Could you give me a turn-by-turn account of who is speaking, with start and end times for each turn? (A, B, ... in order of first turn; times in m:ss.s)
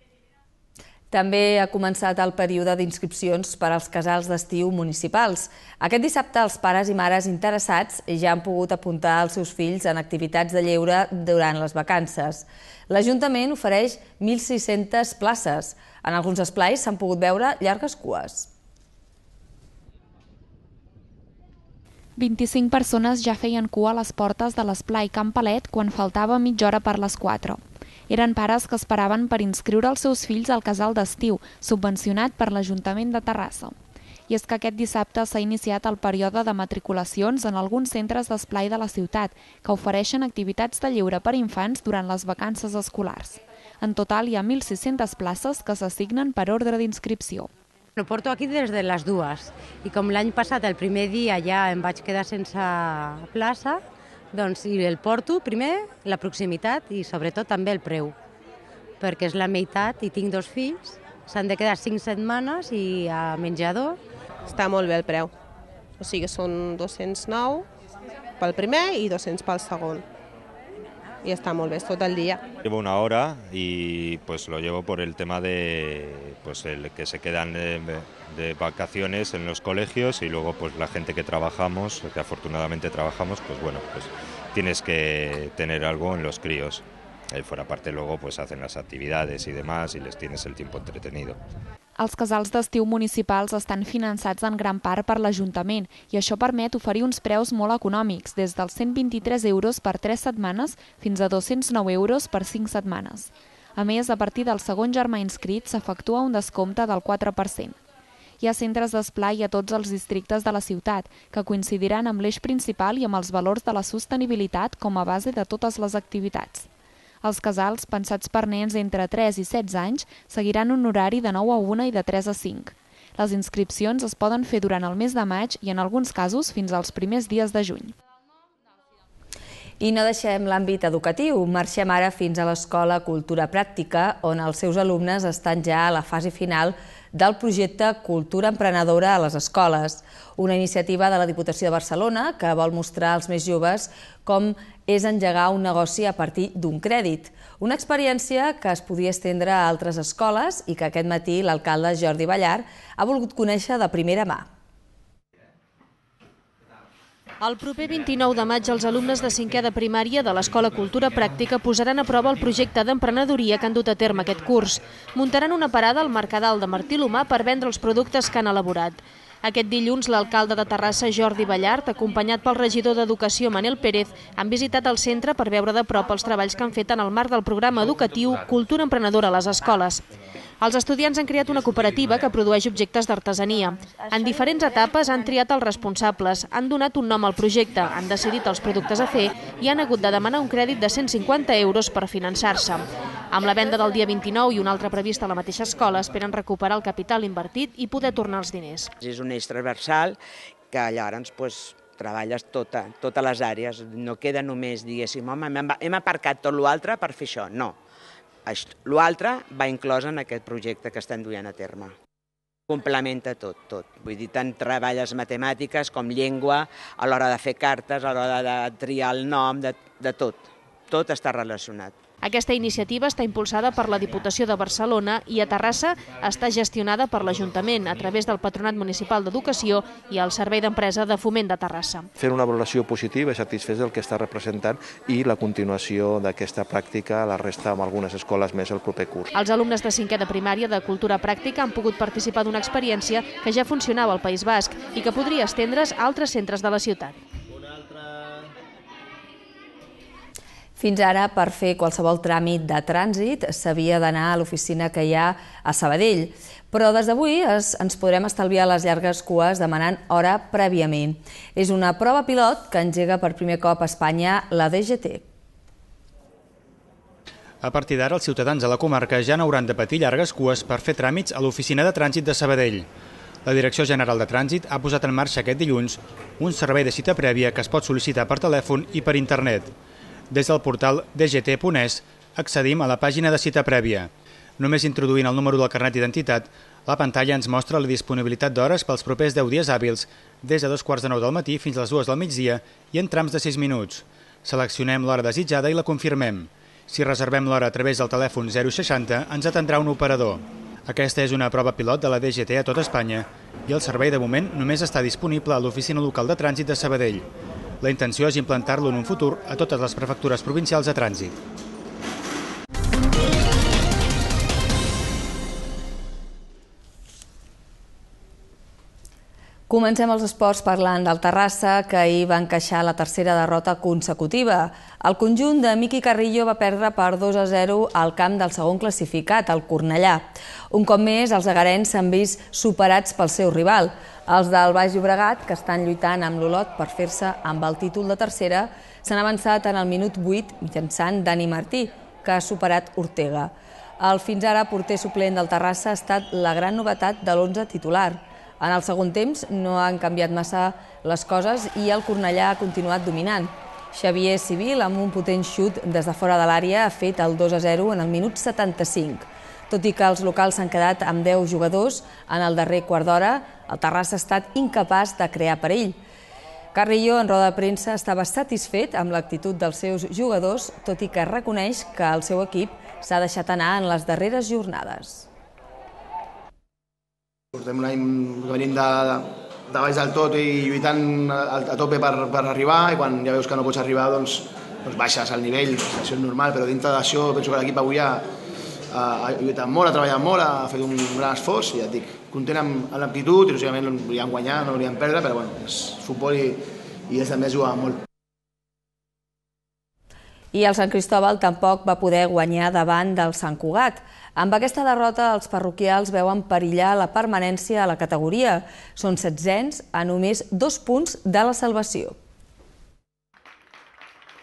0:01.1-0:18.5 A
0:22.2-0:33.8 B
0:34.3-0:47.5 B
0:48.0-0:53.8 C
0:54.3-0:58.2 C
0:59.0-1:04.0 C
1:04.5-1:05.3 D
1:06.0-1:07.3 E
1:06.0-1:07.6 D
1:08.4-1:09.7 E
1:08.4-1:10.0 D
1:11.3-1:12.4 D
1:11.3-1:11.8 E
1:12.6-1:31.4 F
1:32.0-1:47.8 B
1:48.4-1:56.7 B
1:57.2-2:07.9 B
2:09.8-2:34.5 A
2:37.4-3:00.0 G
3:00.6-3:18.9 G
3:19.0-3:20.2 H
3:20.7-3:27.8 H
3:28.5-3:31.9 H
3:32.7-3:41.9 H
3:42.2-3:52.1 G
3:52.2-3:59.3 I
3:59.3-4:07.2 G
4:10.8-4:25.2 A
4:27.6-4:32.9 J
4:33.4-4:39.7 J
4:40.3-5:07.3 J
5:07.8-5:11.4 J
5:19.7-6:06.0 A
6:06.7-6:15.3 A
6:17.5-6:28.3 E
6:28.9-6:38.0 E
6:40.5-6:52.2 A